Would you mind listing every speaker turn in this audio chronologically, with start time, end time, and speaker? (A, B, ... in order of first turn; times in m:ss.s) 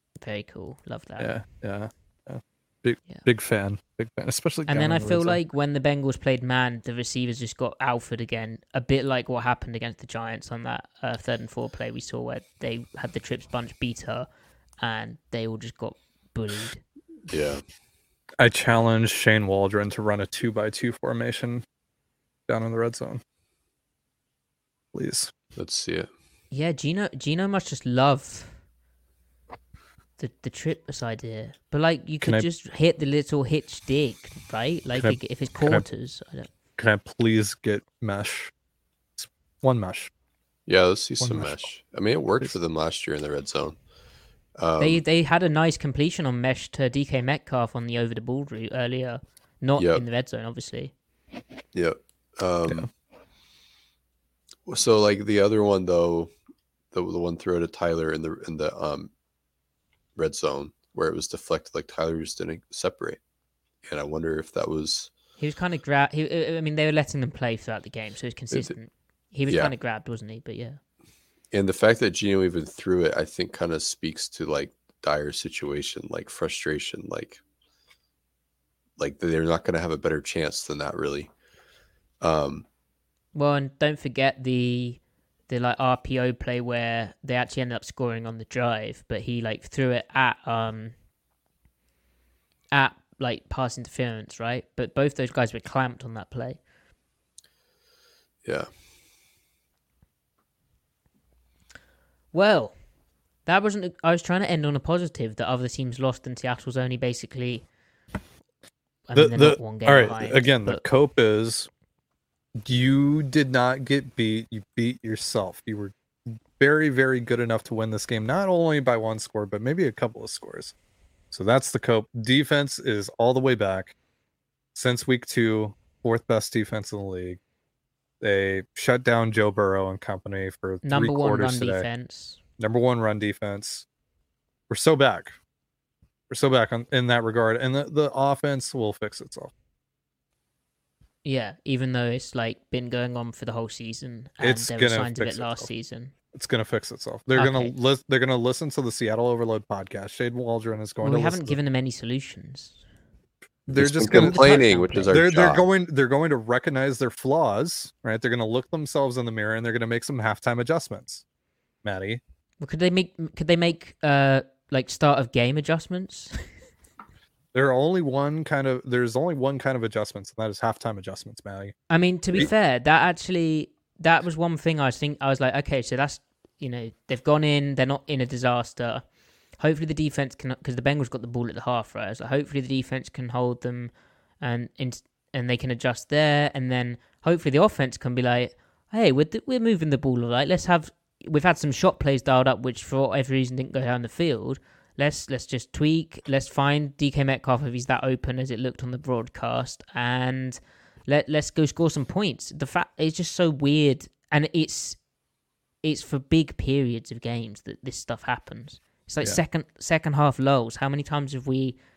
0:00.2-0:01.3 A
0:01.2-0:05.4 B
0:04.7-0:14.3 A
0:14.8-0:16.8 A
0:17.3-0:17.6 C
0:18.4-0:21.6 B
0:22.5-0:23.2 B
0:24.9-0:25.3 B
0:25.6-0:26.1 C
0:26.5-0:28.6 A
0:30.2-0:36.5 A
0:32.2-0:32.5 B
0:35.0-0:35.8 B
0:36.8-0:38.5 B
0:39.2-0:40.1 B
0:40.7-0:43.8 C
0:41.2-0:41.6 B
0:44.5-0:45.0 C
0:44.8-0:50.9 A
0:49.8-0:50.0 C
0:51.7-0:52.9 C
0:54.7-0:56.3 C
0:56.9-0:59.1 C
1:00.2-1:03.2 C
1:03.8-1:05.1 C
1:05.4-1:10.8 A
1:09.5-1:09.7 C
1:11.5-1:17.4 C
1:19.0-1:21.3 C
1:22.2-1:22.6 C
1:23.3-1:30.9 A
1:32.7-1:36.6 A
1:38.4-1:38.7 C
1:42.3-1:42.8 A
1:43.4-1:47.6 A
1:49.1-1:50.8 A
1:49.1-1:51.7 B
1:52.6-2:00.7 B
2:01.3-2:03.9 B
2:04.7-2:07.4 B
2:08.2-2:11.8 B
2:10.8-2:12.4 A
2:12.6-2:13.8 B
2:14.7-2:15.4 B
2:16.3-2:19.5 B
2:21.2-2:26.1 A
2:24.4-2:25.7 B
2:26.3-2:31.6 B
2:27.4-2:27.7 A
2:31.0-2:32.8 A
2:33.6-2:41.2 B
2:33.7-2:35.6 C
2:34.1-2:35.1 A
2:41.8-2:42.2 B
2:42.6-2:46.5 A
2:47.5-2:51.8 B
2:51.9-3:25.0 A
3:25.8-3:31.8 A